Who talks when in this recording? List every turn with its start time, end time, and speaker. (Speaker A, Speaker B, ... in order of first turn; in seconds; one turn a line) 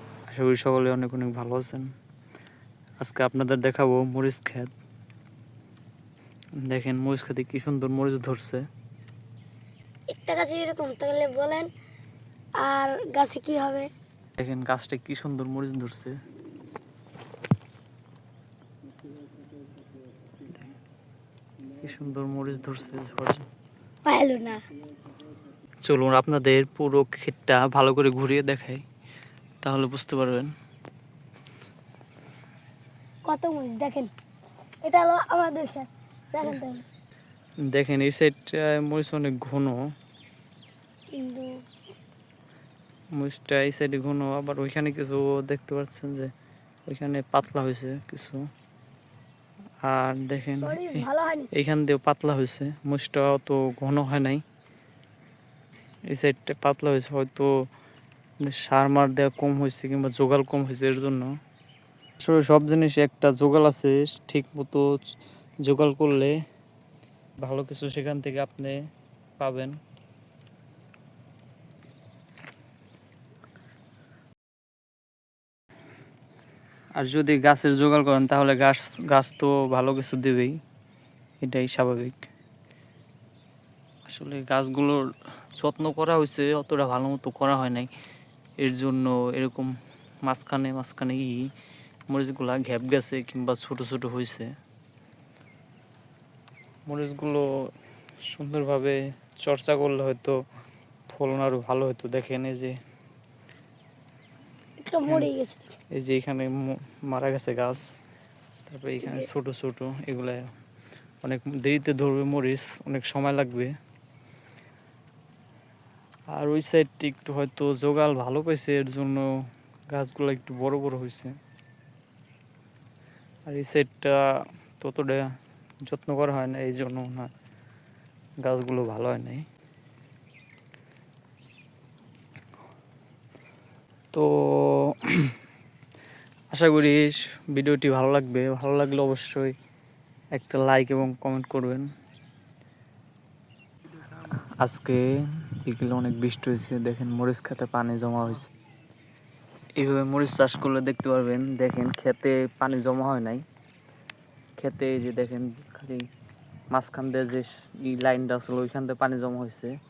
Speaker A: 0.3-1.9
Speaker A: 3.0-4.7
Speaker A: 6.7-8.7
Speaker B: 10.2-11.7
Speaker B: 12.6-13.9
Speaker A: 14.4-16.2
Speaker A: 21.8-23.5
Speaker B: 24.1-24.6
Speaker A: 25.8-28.8
Speaker A: 29.6-30.5
Speaker B: 33.3-34.1
Speaker B: 34.8-36.8
Speaker A: 37.7-39.9
Speaker B: 41.1-41.5
Speaker A: 43.1-46.3
Speaker A: 46.9-48.5
Speaker A: 49.8-54.4
Speaker B: 50.6-51.5
Speaker A: 56.1-57.6
Speaker A: 58.4-61.4
Speaker A: 62.2-64.9
Speaker A: 65.7-66.4
Speaker A: 67.4-68.8
Speaker A: 69.4-69.8
Speaker A: 77.0-80.6
Speaker A: 81.4-82.2
Speaker A: 84.1-87.9
Speaker A: 88.6-89.7
Speaker A: 90.2-91.5
Speaker A: 92.1-94.5
Speaker A: 96.9-97.5
Speaker A: 98.2-100.4
Speaker A: 101.1-102.8
Speaker B: 104.8-105.7
Speaker A: 106.0-107.8
Speaker A: 108.7-110.5
Speaker A: 111.2-113.7
Speaker A: 116.3-119.3
Speaker A: 119.9-121.3
Speaker A: 123.5-124.2
Speaker A: 124.8-125.3
Speaker A: 125.9-127.3
Speaker A: 128.4-129.5
Speaker A: 134.1-135.3
Speaker A: 136.5-139.6
Speaker A: 140.3-141.9
Speaker A: 144.6-145.1
Speaker A: 145.6-148.5
Speaker A: 149.8-153.5
Speaker A: 154.6-156.1
Speaker A: 156.7-159.7